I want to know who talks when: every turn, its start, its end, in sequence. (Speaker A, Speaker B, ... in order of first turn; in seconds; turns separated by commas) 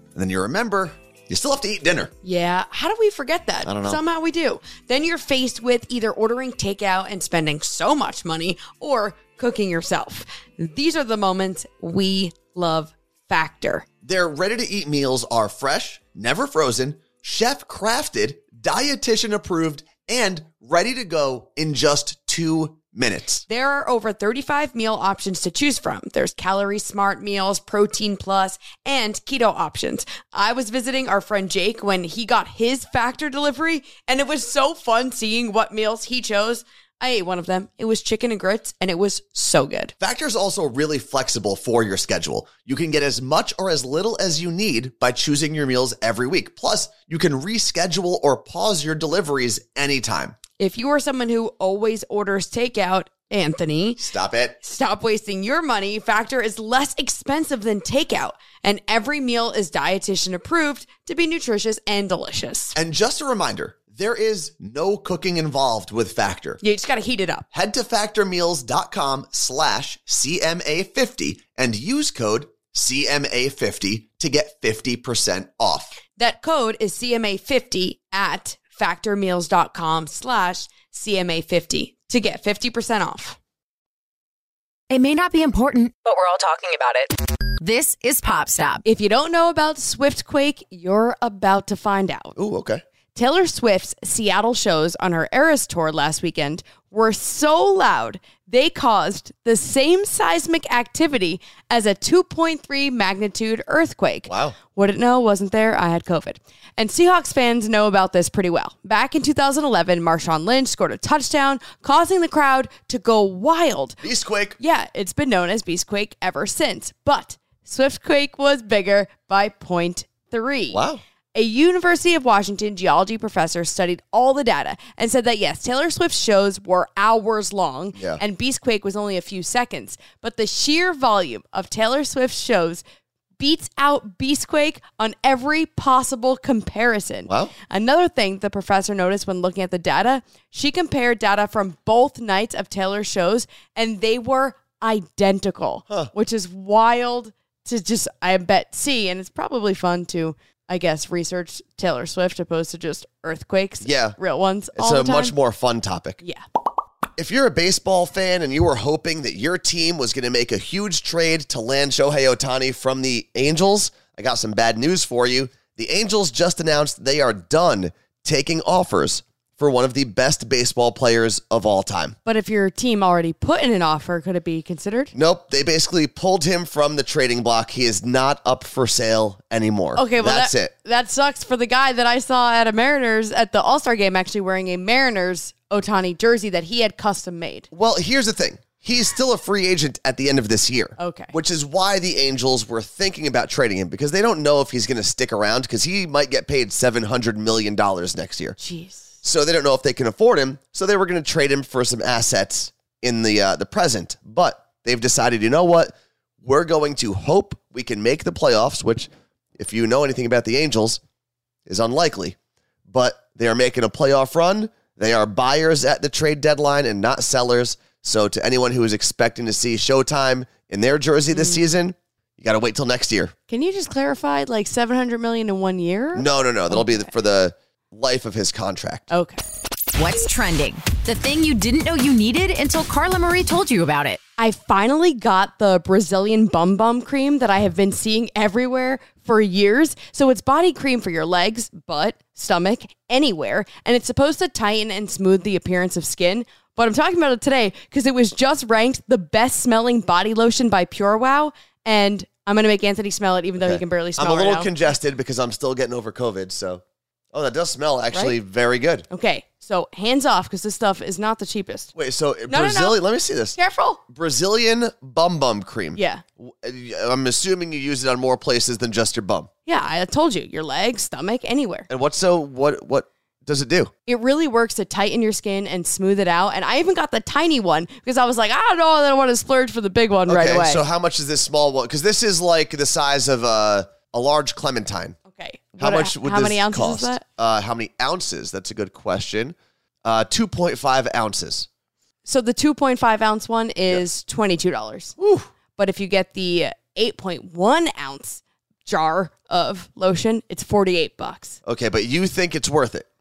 Speaker A: 0.1-2.1, Speaker B: 2.2-13.9, Speaker A: 3.6-4.0, Speaker A: 14.0-23.4, Speaker B: 23.5-39.9, Speaker A: 40.0-50.4, Speaker B: 50.6-54.0, Speaker A: 54.0-54.6, Speaker B: 54.6-62.8, Speaker A: 62.8-66.6, Speaker B: 66.6-67.5, Speaker A: 67.5-76.0, Speaker B: 76.2-83.4, Speaker C: 84.9-88.8, Speaker B: 88.8-92.3, Speaker A: 92.4-92.8, Speaker B: 93.1-114.0, Speaker A: 104.3-104.6, Speaker A: 114.0-114.6, Speaker B: 114.6-132.8, Speaker A: 120.7-121.0, Speaker A: 128.0-128.2, Speaker B: 133.4-155.3, Speaker A: 137.3-137.5, Speaker A: 153.8-154.2, Speaker A: 154.8-156.2, Speaker A: 157.2-172.2, Speaker B: 172.2-175.1, Speaker A: 175.1-180.7, Speaker B: 179.9-187.7, Speaker A: 187.7-198.6, Speaker B: 191.0-191.3, Speaker B: 198.6-199.1, Speaker A: 199.2-211.0, Speaker A: 211.7-212.4, Speaker A: 212.9-223.3, Speaker B: 221.3-221.6, Speaker B: 223.5-227.1, Speaker A: 226.2-229.1, Speaker B: 229.1-229.4, Speaker C: 229.9-234.2, Speaker B: 234.4-254.8, Speaker A: 253.6-256.8, Speaker A: 257.3-259.1, Speaker B: 259.1-261.9, Speaker A: 261.9-263.6, Speaker B: 262.5-263.0, Speaker B: 263.6-264.0, Speaker A: 264.1-269.5, Speaker B: 265.9-266.2, Speaker B: 269.7-271.9, Speaker A: 271.9-273.9, Speaker B: 274.1-280.9, Speaker A: 280.3-285.2, Speaker B: 285.3-287.2, Speaker A: 285.8-291.7, Speaker B: 292.2-295.2, Speaker A: 295.2-295.5, Speaker B: 295.8-301.6, Speaker A: 301.6-303.1